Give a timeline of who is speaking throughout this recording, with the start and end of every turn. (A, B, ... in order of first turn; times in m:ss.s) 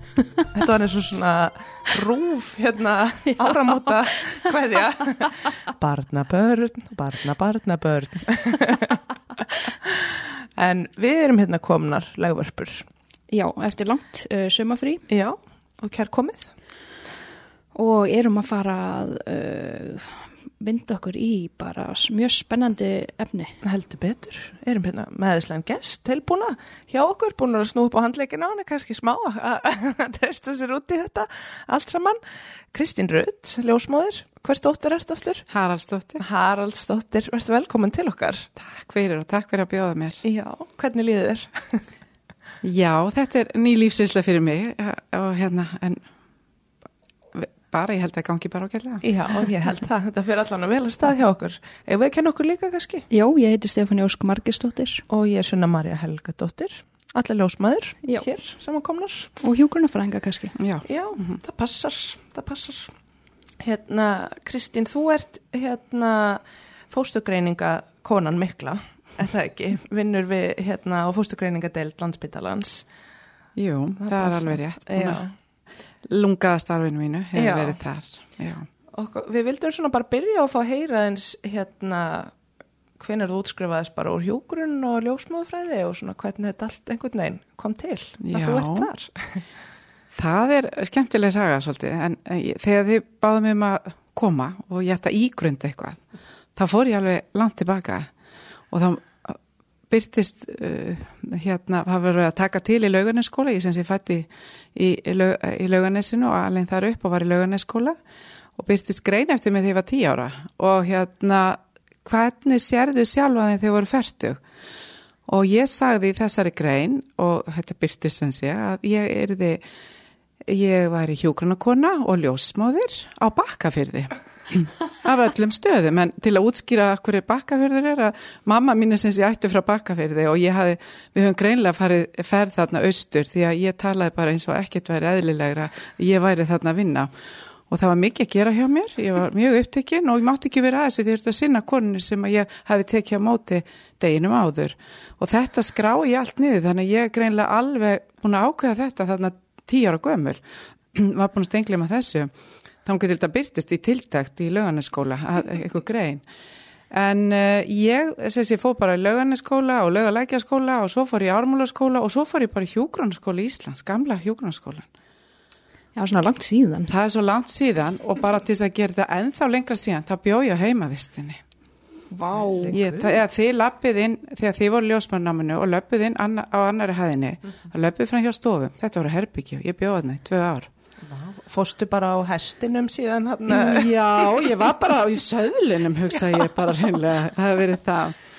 0:00.5-0:12.9 A
0:13.3-0:15.0 B
0:15.1-0:16.5 A
0:17.7-0:23.6 B
0:23.6-0:32.2 A
0:32.7-0:35.5 A
0:35.5-0:36.2 C
0:36.2-0:38.5 A
0:38.6-0:40.2 C
0:40.2-0:41.8 A
0:42.6-0:46.0 C
0:47.3-0:49.1 C
0:49.0-0:53.1 A
0:53.1-0:55.0 B
0:55.1-0:59.3 A
0:59.4-1:00.5 B
1:00.6-1:01.4 C
1:00.8-1:02.9 A
1:03.6-1:12.8 A
1:13.6-1:15.2 C
1:14.0-1:15.3 A
1:16.0-1:18.7 C
1:17.3-1:17.8 A
1:18.9-1:22.3 A
1:23.0-1:29.5 A
1:28.2-1:28.9 C
1:30.1-1:36.0 C
1:36.6-1:38.1 C
1:38.7-1:39.4 C
1:39.9-1:48.0 C
1:48.6-1:54.4 C
1:55.2-1:59.6 C
2:00.5-2:17.1 C
2:17.7-2:30.4 C
2:30.9-2:32.3 C
2:32.8-2:36.2 C
2:36.9-2:44.9 C
2:45.9-2:46.9 B
2:46.9-2:51.4 C
2:52.1-2:52.8 B
2:52.3-2:53.2 A
2:52.7-3:00.7 C
3:01.0-3:04.5 A
3:03.5-3:08.2 C